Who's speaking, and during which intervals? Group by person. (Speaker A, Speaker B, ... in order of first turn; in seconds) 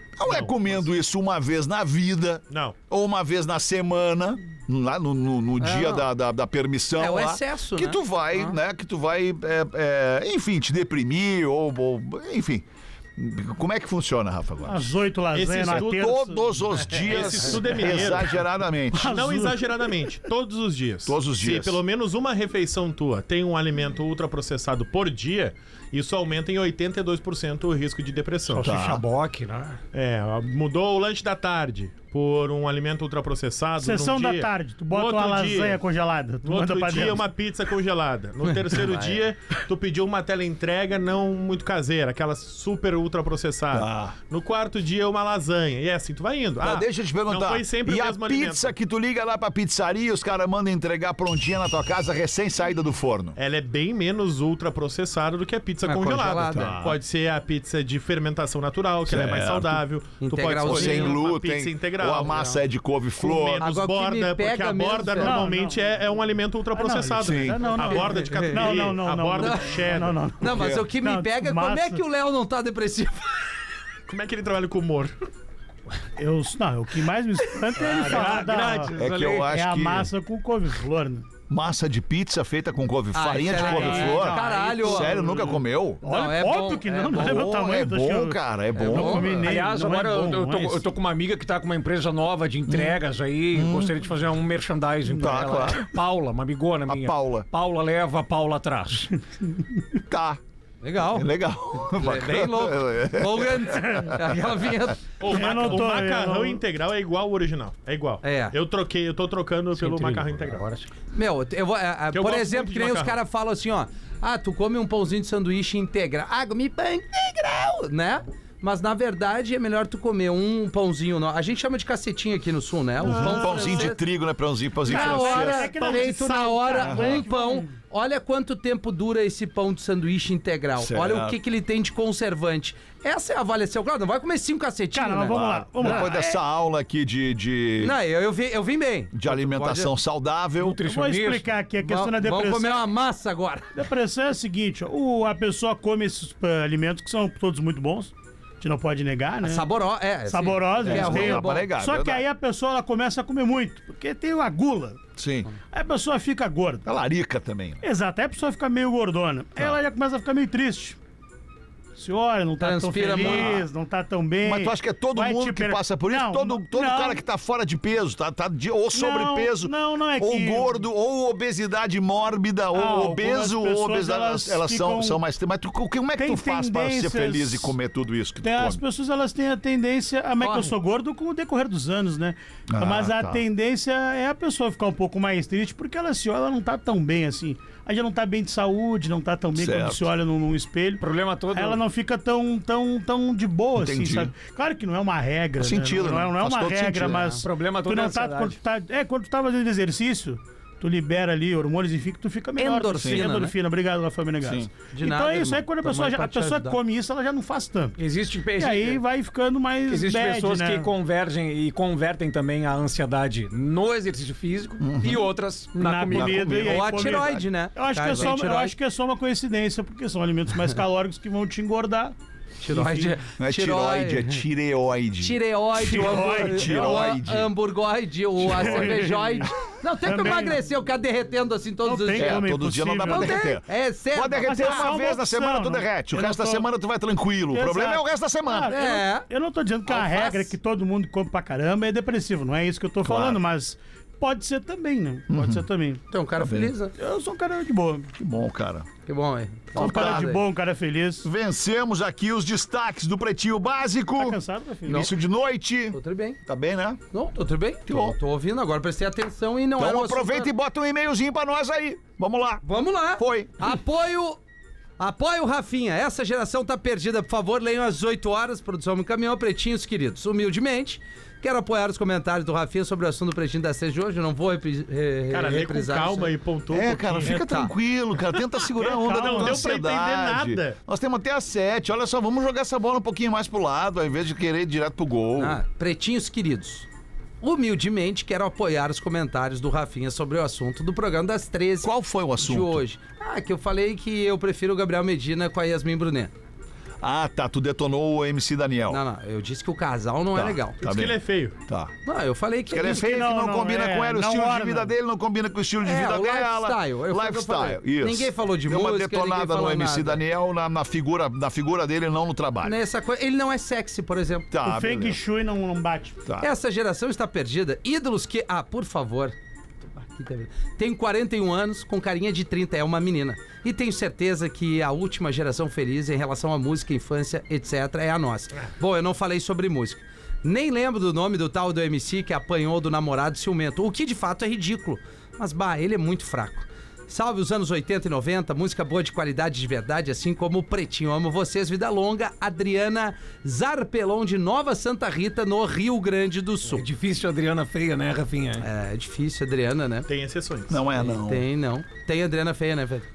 Speaker A: 0.2-14.9, 15.7-19.1, 21.1-21.8, 28.6-29.0, 43.7-44.2, 46.6-53.4, 56.5-57.0, 59.1-59.8, 60.6-63.6, 67.2-67.6, 70.5-70.9, 79.0-80.1, 81.5-86.0, 87.1-89.5, 92.7-93.0, 93.5-94.0, 95.1-95.9, 96.9-97.5, 100.1-100.4, 101.1-104.4, 123.0-125.7, 126.8-127.2, 130.8-131.4, 135.3-137.9, 139.1-140.8, 150.8-152.2, 155.2-155.5, 156.8-157.8, 163.1-163.6, 164.4-178.8, 182.7-183.4, 189.6-190.1, 193.8-194.3, 195.6-197.4, 203.0-203.3, 204.4-204.7, 214.8-215.3, 216.1-217.4, 223.4-227.5, 228.4-228.9, 232.2-238.8, 243.0-243.4, 245.3-245.6, 246.4-246.7, 248.2-248.9, 249.8-250.4, 251.2-257.0, 257.9-258.2, 259.8-263.7, 276.7-285.6, 291.8-292.8, 297.0-299.0, 300.3-301.9, 302.7-312.8, 314.5-315.2, 350.7-351.5
Speaker B: 0.3-0.8, 2.5-2.8, 15.3-16.2, 16.9-18.4, 18.9-28.7, 29.9-35.8, 36.4-48.7, 53.4-62.6, 63.2-70.2, 74.1-75.2, 105.2-110.6, 112.1-113.2, 125.6-127.0, 275.3-277.4, 278.9-280.8, 300.8-301.6, 350.1-350.8
Speaker C: 5.6-6.1, 7.0-8.6, 38.7-39.2, 55.9-56.8, 60.2-61.2, 63.6-65.5, 67.9-68.9, 69.4-69.9, 70.4-73.3, 78.1-78.3, 83.1-85.2, 86.0-87.5, 88.8-89.5, 100.8-105.7, 108.2-108.5, 111.1-124.0, 124.9-136.1, 137.8-139.9, 141.8-143.7, 149.4-151.7, 162.6-163.7, 180.4-180.8, 197.1-197.4, 202.6-203.5, 204.9-206.8, 216.6-218.8, 222.6-224.4, 225.2-232.5, 233.0-235.0, 238.7-239.3, 239.9-240.5, 246.1-246.9, 249.1-250.4, 255.9-256.4, 257.1-260.5, 262.6-264.4, 265.0-276.3, 277.2-277.7, 285.4-286.9, 287.4-296.3, 298.9-300.8, 302.1-303.1, 305.8-310.2, 312.6-314.5, 316.4-319.4, 319.9-346.9, 348.6-350.1, 351.0-353.1
Speaker D: 14.7-16.4, 18.9-20.0, 33.8-37.2, 65.2-66.0, 66.7-72.0, 76.2-81.3, 83.5-90.8, 105.3-106.6, 123.1-123.8, 124.9-127.7, 134.9-136.4, 140.8-142.9, 143.8-149.7, 150.3-155.0, 155.7-156.9, 157.8-161.0, 161.9-167.2, 168.9-170.8, 172.7-175.2, 176.2-177.8, 178.4-208.0, 208.6-210.9, 215.8-222.2, 222.7-223.2, 225.8-227.1, 228.4-230.6, 231.8-233.5, 234.4-236.7, 237.5-246.0, 247.0-248.1, 249.8-251.3, 254.2-255.1, 278.8-279.6, 302.8-304.9, 314.6-316.2
Speaker E: 28.5-29.8, 77.8-79.5, 89.4-99.1, 109.8-110.9, 140.6-141.5, 191.0-191.8, 197.4-198.6, 208.0-209.0, 209.9-216.8, 346.7-348.7